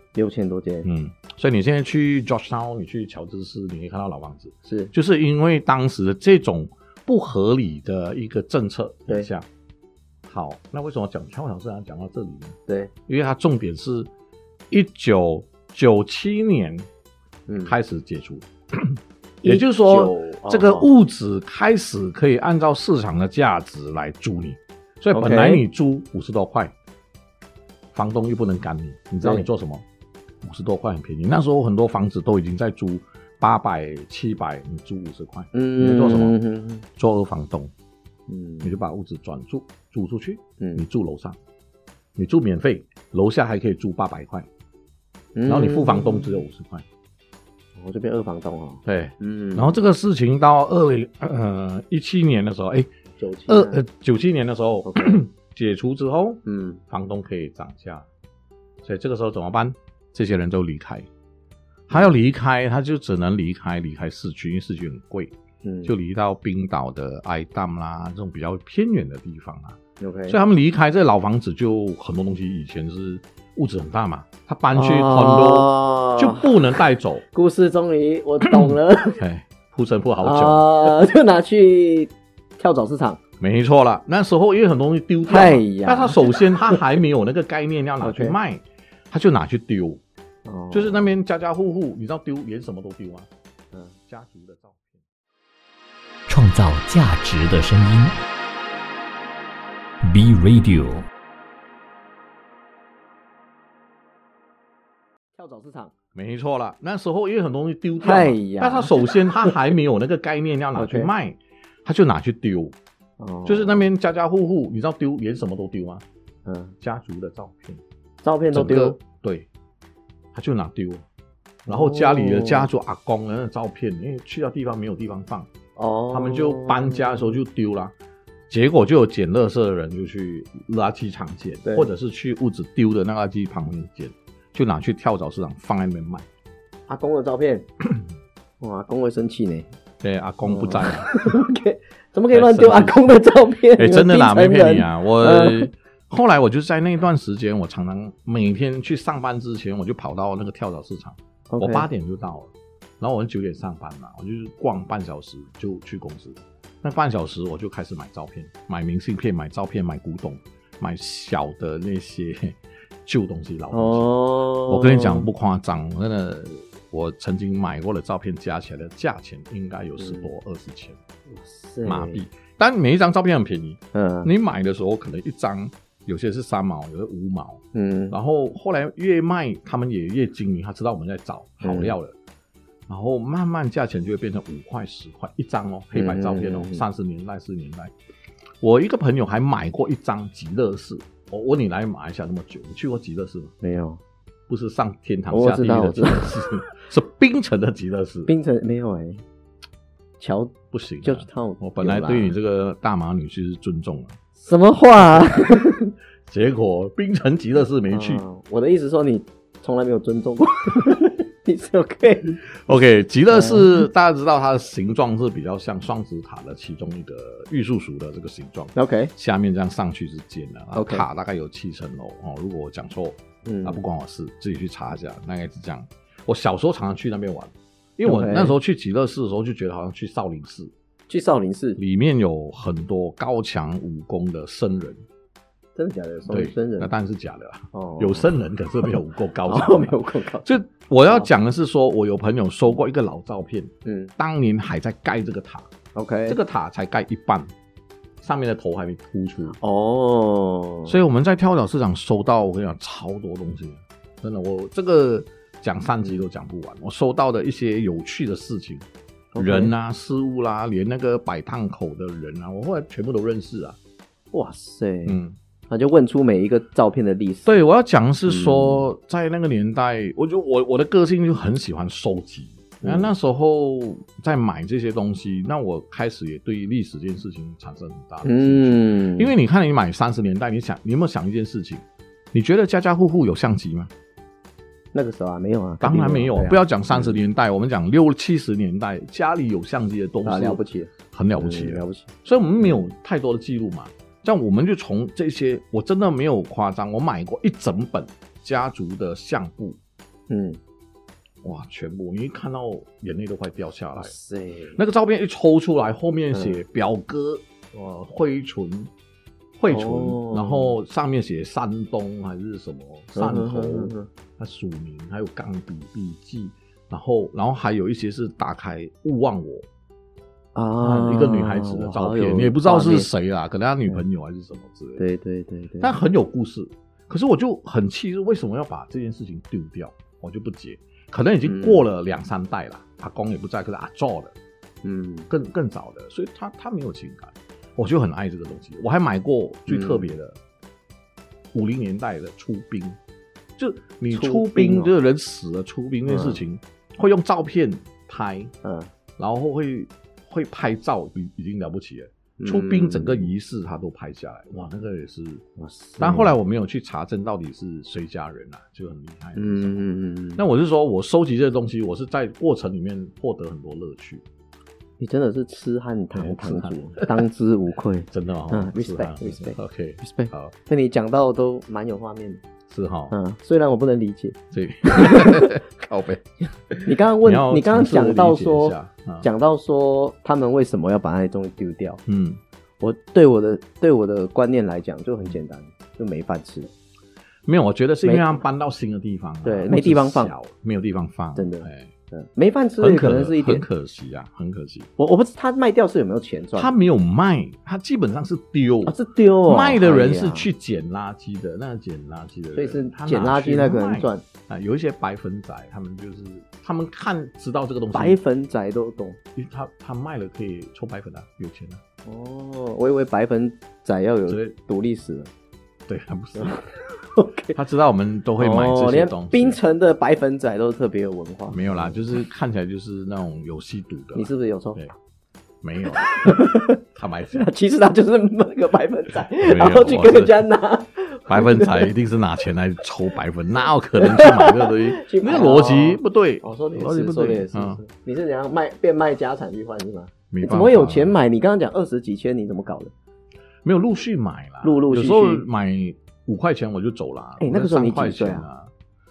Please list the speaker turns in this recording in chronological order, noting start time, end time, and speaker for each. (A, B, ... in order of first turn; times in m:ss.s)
0:00.1-0:00.8 A
0:00.8-0:09.5 B
0:04.6-0:04.9 A
0:10.2-0:12.6 B
0:13.1-0:14.1 B
0:14.7-0:16.9 B
0:17.5-0:17.7 A
0:17.6-0:26.7 B
0:19.4-0:20.9 A
0:25.1-0:25.6 A
0:27.9-0:29.8 B
0:29.2-0:29.5 A
0:30.4-0:36.3 B
0:35.5-0:36.8 A
0:37.0-0:37.7 B
0:38.3-0:38.8 A
0:38.6-0:41.4 B
0:40.6-0:40.8 A
0:42.2-0:44.5 B
0:45.3-0:46.4 A
0:45.5-0:46.8 B
0:47.7-0:49.8 A
0:48.8-0:52.9 B
0:53.2-0:53.8 A
0:53.5-0:58.1 B
0:54.8-0:55.2 A
0:56.4-0:56.8 A
0:58.8-1:01.1 B
1:01.9-1:05.3 B
1:05.6-1:05.9 A
1:05.8-1:17.2 B
1:10.0-1:10.4 A
1:14.7-1:16.5 A
1:17.3-1:19.2 A
1:18.4-1:21.0 B
1:20.2-1:23.2 A
1:23.4-1:30.0 B
1:25.3-1:26.8 A
1:28.0-1:28.4 A
1:30.4-1:31.1 A
1:30.7-1:33.3 B
1:34.1-1:35.0 B
1:36.3-1:38.1 C
1:40.0-1:41.0 C
1:45.3-1:45.9 A
1:46.1-1:52.8 B
1:48.0-1:49.6 A
1:50.7-1:51.1 A
1:53.2-1:53.8 A
1:53.4-1:56.0 B
1:56.4-1:56.7 A
1:56.8-1:57.8 B
1:58.2-1:59.0 A
1:58.5-1:59.5 B
2:00.3-2:01.0 B
2:01.6-2:02.7 A
2:01.7-2:05.5 B
2:05.8-2:07.4 A
2:06.1-2:07.9 B
2:08.5-2:16.3 B
2:16.9-2:17.7 A
2:18.6-2:19.7 A
2:20.0-2:21.4 B
2:20.4-2:25.7 A
2:22.3-2:23.1 B
2:23.7-2:44.0 B
2:31.5-2:31.9 A
2:43.7-2:45.3 A
2:44.7-2:51.0 B
2:50.0-2:50.3 A
2:51.3-2:52.2 A
2:51.8-3:02.1 B
2:53.9-2:54.3 A
2:57.7-2:58.1 A
3:01.6-3:01.9 A
3:02.9-3:07.9 B
3:05.9-3:06.8 A
3:08.6-3:13.5 B
3:13.6-3:14.0 A
3:14.5-3:18.3 B
3:15.3-3:16.3 A
3:18.3-3:19.2 A
3:20.2-3:22.3 A
3:20.7-3:24.2 B
3:24.4-3:25.9 A
3:26.3-3:28.2 B
3:27.9-3:32.4 A
3:32.4-3:50.7 B
3:33.3-3:33.8 A
3:38.7-3:39.1 A
3:40.7-3:41.0 A
3:43.4-3:43.8 A
3:48.0-3:48.5 A
3:51.1-3:51.8 A
3:51.8-3:55.0 B
3:55.8-3:56.9 A
3:56.3-4:05.7 B
3:57.7-3:58.3 A
3:59.5-4:00.4 A
4:03.8-4:04.1 A
4:05.9-4:06.4 A
4:06.3-4:07.5 B
4:08.2-4:09.6 B
4:09.5-4:11.0 A
4:10.9-4:18.8 B
4:19.3-4:19.7 A
4:19.4-4:23.8 B
4:24.3-4:25.2 A
4:25.0-4:25.4 B
4:25.7-4:27.6 A
4:27.4-4:43.9 B
4:28.3-4:28.9 A
4:32.8-4:33.1 A
4:38.2-4:39.3 A
4:44.9-4:47.2 A
4:45.8-4:59.8 B
4:50.2-4:52.1 A
5:00.3-5:00.6 A
5:01.4-5:04.1 B
5:04.0-5:04.8 A
5:04.8-5:08.9 B
5:06.3-5:06.6 A
5:09.6-5:19.6 B
5:09.7-5:10.7 A
5:13.1-5:14.1 A
5:20.5-5:23.1 A
5:20.8-5:25.0 B
5:25.0-5:26.0 A
5:25.8-5:34.3 B
5:31.4-5:31.8 A
5:34.8-5:35.3 A
5:35.3-5:40.4 B
5:39.7-5:40.1 A
5:41.5-5:43.0 B
5:43.6-5:48.5 B
5:44.1-5:44.9 A
5:46.1-5:46.4 A
5:48.6-5:48.9 A
5:49.2-5:55.4 B
5:52.4-5:53.3 A
5:55.6-5:56.3 A
5:56.0-5:59.8 B
5:59.4-6:00.4 A
6:00.4-6:04.2 B
6:05.0-6:12.4 A
6:06.1-6:07.2 B
6:08.1-6:10.5 B
6:12.7-6:13.1 B
6:13.1-6:15.6 A
6:14.5-6:19.3 B
6:16.8-6:22.0 A
6:22.0-6:22.4 B
6:22.8-6:26.7 A
6:27.4-6:31.9 B
6:28.0-6:28.3 A
6:29.4-6:30.3 A
6:31.4-6:33.6 A
6:32.8-6:34.9 B
6:35.0-6:36.7 A
6:36.5-6:48.2 B
6:38.8-6:40.5 A
6:42.5-6:44.2 A
6:47.9-6:49.2 A
6:49.4-6:51.8 B
6:52.0-6:55.3 A
6:54.3-6:54.5 B
6:55.9-6:56.7 B
6:56.4-6:57.6 A
6:57.5-6:59.6 B
6:58.4-7:02.0 A
7:01.5-7:04.9 B
7:04.1-7:04.8 A
7:05.6-7:07.5 B
7:06.0-7:06.8 A
7:07.3-7:11.9 A
7:09.4-7:10.4 B
7:11.3-7:17.8 B
7:14.0-7:22.9 A
7:20.3-7:21.1 B
7:23.6-7:28.7 B
7:24.6-7:25.4 A
7:27.4-7:28.4 A